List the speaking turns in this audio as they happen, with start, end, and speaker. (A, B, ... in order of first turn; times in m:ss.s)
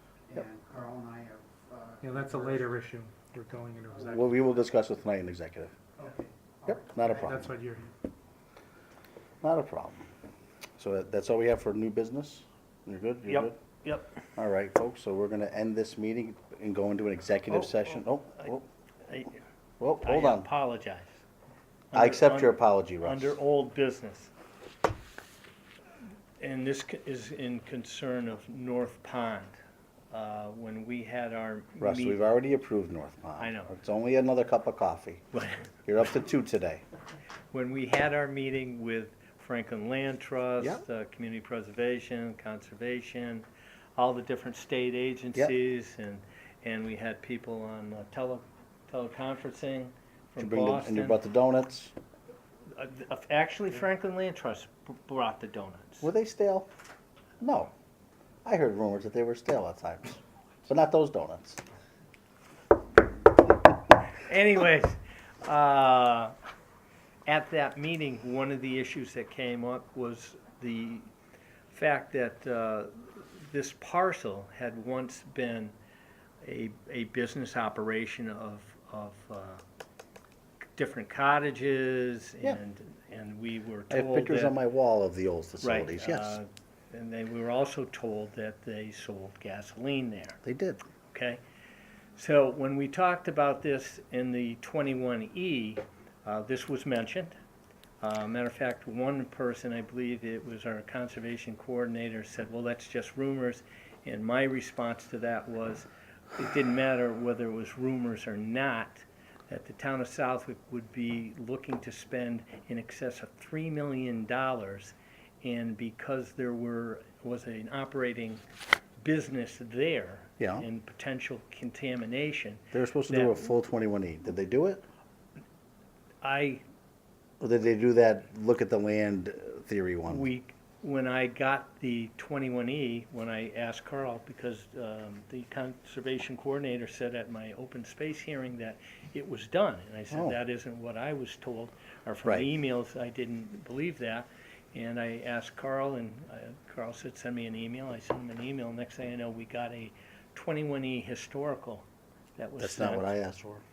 0:00.3-0:02.7 A
0:02.0-0:04.4 B
0:03.9-0:04.2 A
0:04.0-0:05.7 C
0:06.0-0:07.5 A
0:06.7-0:07.5 C
0:07.1-0:08.0 B
0:09.4-0:10.0 C
0:10.8-0:13.6 C
0:13.3-0:14.2 D
0:14.4-0:18.6 C
0:17.5-0:18.5 D
0:19.0-0:19.4 D
0:19.8-0:20.5 C
0:20.0-0:21.2 D
0:21.9-0:24.3 D
0:21.9-0:23.4 C
0:26.4-0:29.6 D
0:30.1-0:32.2 D
0:31.8-0:35.2 C
0:33.4-0:33.8 D
0:35.3-0:35.8 D
0:35.9-0:36.8 C
0:37.5-0:51.2 D
0:50.4-0:51.9 C
0:52.7-0:56.1 D
0:56.0-0:56.7 C
0:57.4-0:57.7 C
0:58.4-1:01.6 C
1:04.1-1:06.3 D
1:07.2-1:11.1 D
1:11.7-1:15.7 D
1:16.4-1:19.6 D
1:20.8-1:24.6 D
1:23.9-1:26.4 C
1:25.6-1:30.4 D
1:30.4-1:30.8 C
1:31.1-1:31.4 D
1:32.2-1:37.4 D
1:38.0-1:58.4 D
1:59.0-2:03.5 D
2:00.4-2:00.7 C
2:02.7-2:04.8 C
2:06.2-2:06.6 D
2:07.4-2:10.3 C
2:10.1-2:31.8 D
2:20.1-2:20.4 C
2:32.4-2:33.2 D
2:32.6-2:33.6 C